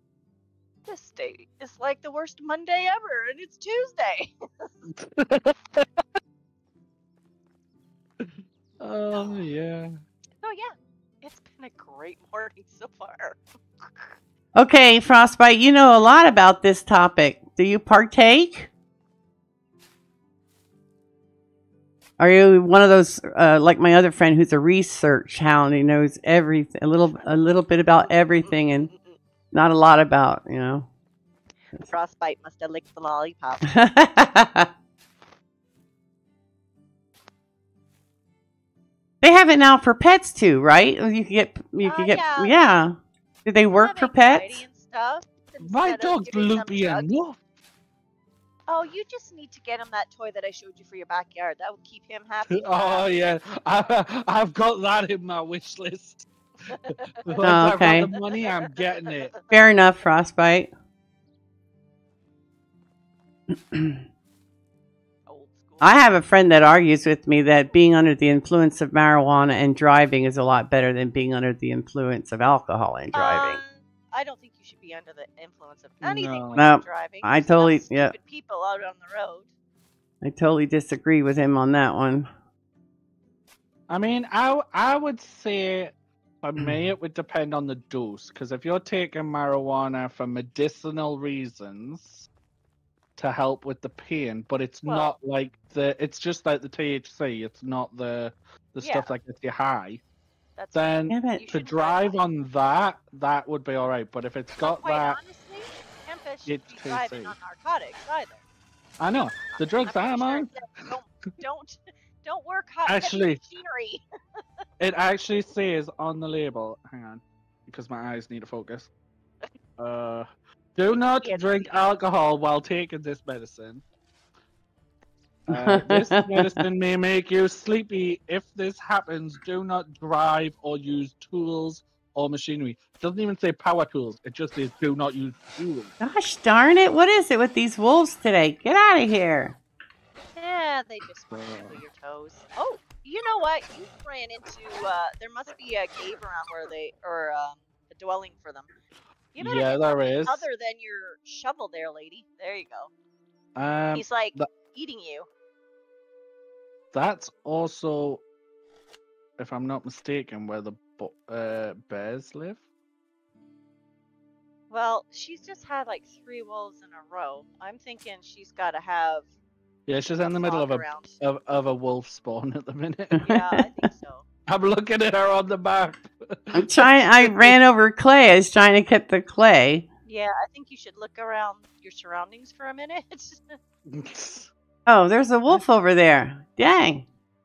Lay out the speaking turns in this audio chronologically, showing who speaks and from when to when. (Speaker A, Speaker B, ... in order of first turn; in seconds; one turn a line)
Speaker A: 0.9-4.7
Speaker B: 4.9-5.9
Speaker B: 8.2-10.0
Speaker A: 10.4-14.1
Speaker C: 14.6-18.7
Speaker C: 22.2-28.9
Speaker A: 28.0-29.1
Speaker C: 29.5-30.9
Speaker A: 31.8-33.8
Speaker C: 33.7-34.7
Speaker C: 39.2-44.6
Speaker A: 41.8-42.8
Speaker A: 43.8-47.1
Speaker B: 45.6-47.4
Speaker A: 48.7-53.1
Speaker B: 52.5-56.3
Speaker B: 56.9-59.3
Speaker A: 57.3-59.6
Speaker C: 57.4-58.1
Speaker C: 59.5-60.7
Speaker C: 63.5-64.0
Speaker A: 65.3-66.0
Speaker C: 65.8-73.6
Speaker A: 73.1-79.5
Speaker B: 76.0-76.7
Speaker C: 76.6-78.1
Speaker C: 80.2-82.3
Speaker B: 83.9-92.3
Speaker B: 93.2-100.0
Speaker A: 94.9-95.2
Speaker A: 98.8-99.1
Speaker A: 100.6-102.2
Speaker B: 100.7-105.2
Speaker C: 101.1-101.4
Speaker A: 104.6-108.4
Speaker B: 106.5-107.4
Speaker B: 109.0-110.5
Speaker A: 109.6-114.0
Speaker B: 112.9-113.4
Speaker B: 114.8-118.9
Speaker B: 119.8-123.8
Speaker A: 121.2-121.7
Speaker B: 125.5-135.9
Speaker C: 125.5-126.6
Speaker C: 136.0-139.6
Speaker A: 140.4-148.7
Speaker B: 141.3-141.8
Speaker A: 149.3-152.9
Speaker B: 149.4-150.4
Speaker B: 153.6-154.5
Speaker A: 153.9-155.3
Speaker B: 156.9-158.2
Speaker B: 159.4-162.6
Speaker A: 164.7-169.3
Speaker B: 169.9-173.3
Speaker A: 170.1-171.2
Speaker A: 173.2-174.2
Speaker C: 173.2-173.7
Speaker B: 174.5-177.5
Speaker C: 176.5-179.8
Speaker A: 180.1-183.6
Speaker B: 183.9-184.5
Speaker C: 184.9-187.1